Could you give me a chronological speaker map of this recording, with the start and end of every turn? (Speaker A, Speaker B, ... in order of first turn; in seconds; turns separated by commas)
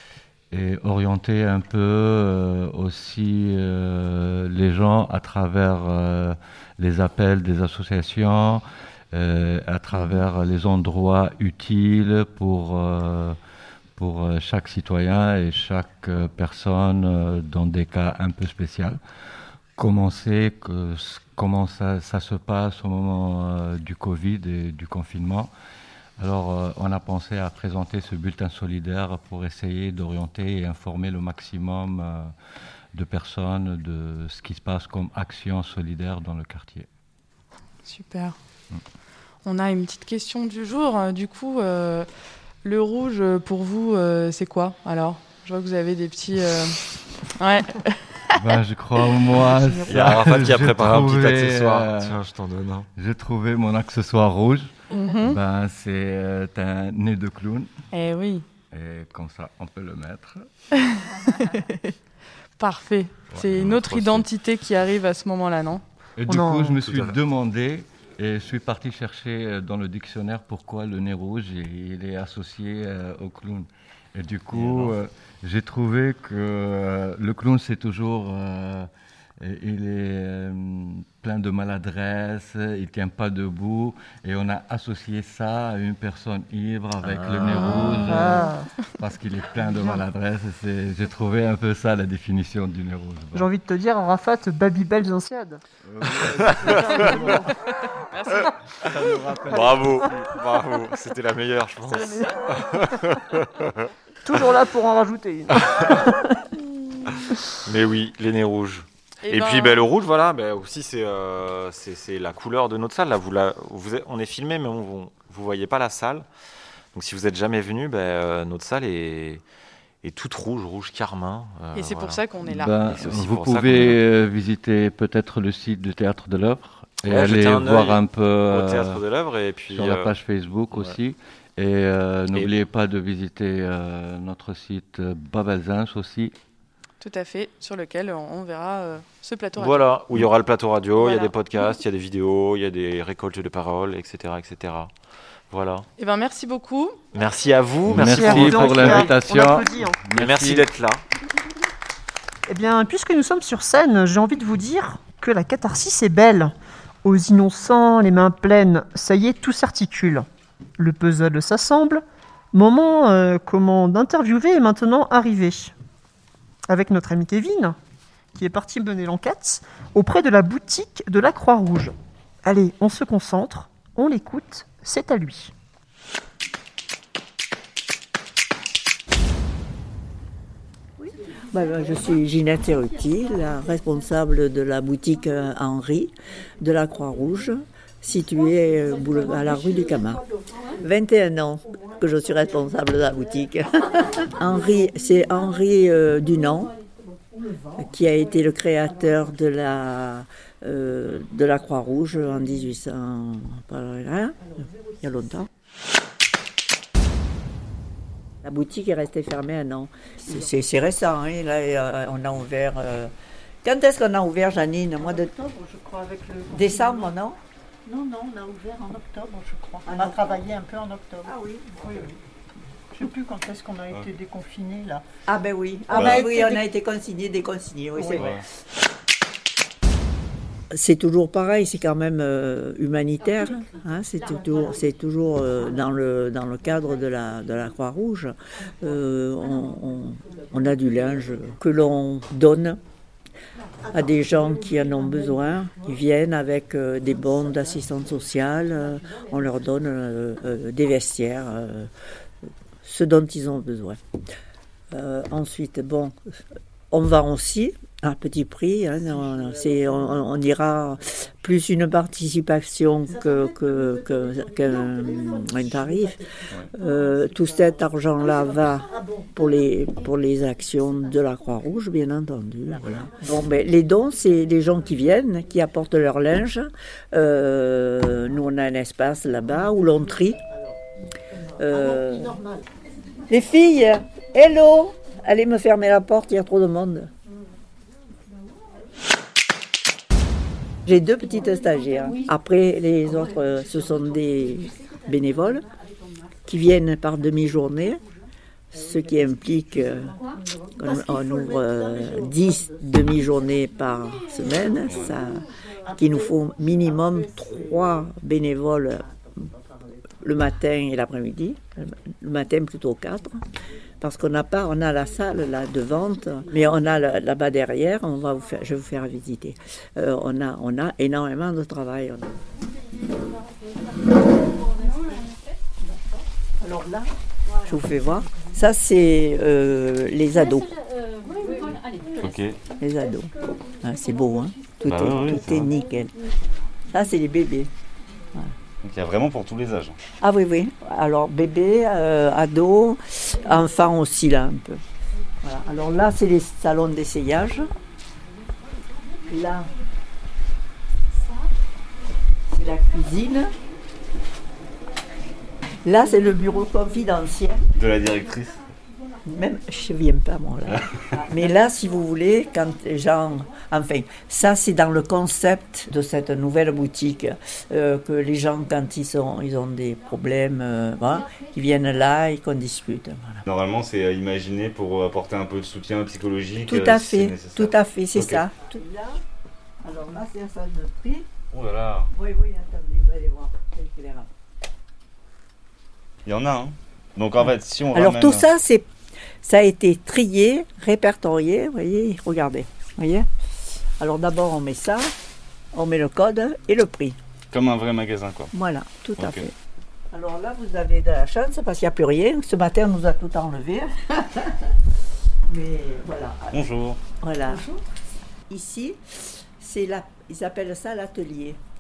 Speaker A: 0.5-13.4, Speaker A: 14.0-19.0, Speaker A: 19.8-25.5, Speaker A: 26.2-32.4, Speaker A: 32.9-36.9, Speaker B: 37.9-38.4, Speaker B: 39.5-42.1, Speaker B: 42.6-48.0, Speaker A: 48.4-52.2, Speaker C: 49.9-52.8, Speaker A: 53.0-57.7, Speaker B: 54.9-55.4, Speaker B: 57.9-58.5, Speaker A: 58.7-60.5, Speaker B: 60.9-61.9, Speaker B: 62.6-65.8, Speaker C: 63.3-64.3, Speaker A: 66.2-93.5, Speaker D: 66.3-66.8, Speaker C: 66.9-67.2, Speaker B: 87.5-88.4, Speaker D: 87.9-88.7, Speaker D: 89.7-90.0, Speaker D: 93.3-95.6, Speaker A: 95.9-97.5, Speaker C: 96.5-97.2, Speaker B: 98.1-98.5, Speaker A: 98.9-99.8, Speaker C: 99.5-103.9, Speaker D: 104.2-106.1, Speaker C: 105.5-105.9, Speaker C: 107.6-116.3, Speaker B: 109.2-109.9, Speaker C: 116.9-119.4, Speaker C: 120.0-122.2, Speaker B: 121.8-122.7, Speaker A: 122.5-129.0, Speaker C: 122.8-124.0, Speaker C: 127.0-130.1, Speaker A: 129.7-136.3, Speaker C: 130.7-131.0, Speaker B: 137.0-139.9, Speaker C: 139.6-144.9, Speaker B: 141.0-141.3, Speaker C: 145.5-145.9, Speaker B: 146.0-147.0, Speaker C: 147.1-149.2, Speaker A: 147.9-150.7, Speaker D: 147.9-150.0, Speaker C: 150.2-151.0, Speaker D: 152.5-160.3, Speaker D: 160.8-165.7, Speaker D: 166.7-167.8, Speaker D: 168.3-171.9, Speaker D: 172.4-175.5, Speaker E: 181.0-196.8, Speaker E: 197.8-205.5, Speaker E: 208.4-213.1, Speaker E: 213.6-215.3, Speaker F: 215.1-217.1, Speaker E: 216.5-217.4, Speaker F: 217.9-222.2, Speaker E: 219.9-220.4, Speaker F: 222.9-225.0, Speaker E: 225.3-228.4, Speaker F: 225.9-226.7, Speaker G: 225.9-226.3, Speaker F: 227.9-228.3, Speaker G: 228.1-228.4, Speaker E: 230.7-242.8, Speaker E: 243.9-251.9, Speaker E: 252.8-254.0, Speaker E: 254.9-256.1, Speaker E: 256.9-280.4, Speaker E: 281.6-282.4, Speaker E: 283.3-287.1, Speaker E: 290.9-295.7, Speaker E: 296.5-298.0, Speaker E: 298.7-300.2, Speaker E: 300.8-309.5, Speaker G: 304.9-305.1, Speaker E: 310.2-313.4, Speaker E: 314.0-322.3, Speaker E: 326.6-327.1, Speaker E: 327.6-330.8, Speaker G: 332.2-332.6, Speaker E: 332.7-336.2, Speaker G: 334.9-335.7, Speaker E: 336.9-337.7, Speaker G: 338.8-340.0, Speaker E: 340.2-344.8, Speaker E: 345.4-347.7, Speaker E: 349.3-349.7, Speaker E: 352.5-353.5, Speaker E: 355.9-357.6, Speaker G: 357.8-358.7, Speaker E: 359.2-373.4, Speaker G: 373.4-378.5, Speaker E: 376.7-379.2, Speaker E: 379.8-381.3, Speaker G: 381.5-382.1, Speaker E: 382.1-384.3, Speaker G: 386.3-388.5, Speaker E: 387.9-388.9, Speaker E: 389.4-393.3, Speaker E: 394.0-395.1, Speaker E: 395.7-397.2, Speaker G: 397.5-398.5, Speaker E: 398.5-399.5, Speaker G: 399.2-399.5, Speaker E: 400.1-404.5, Speaker E: 405.5-406.6, Speaker G: 406.5-407.0, Speaker E: 407.2-407.8, Speaker E: 408.5-411.6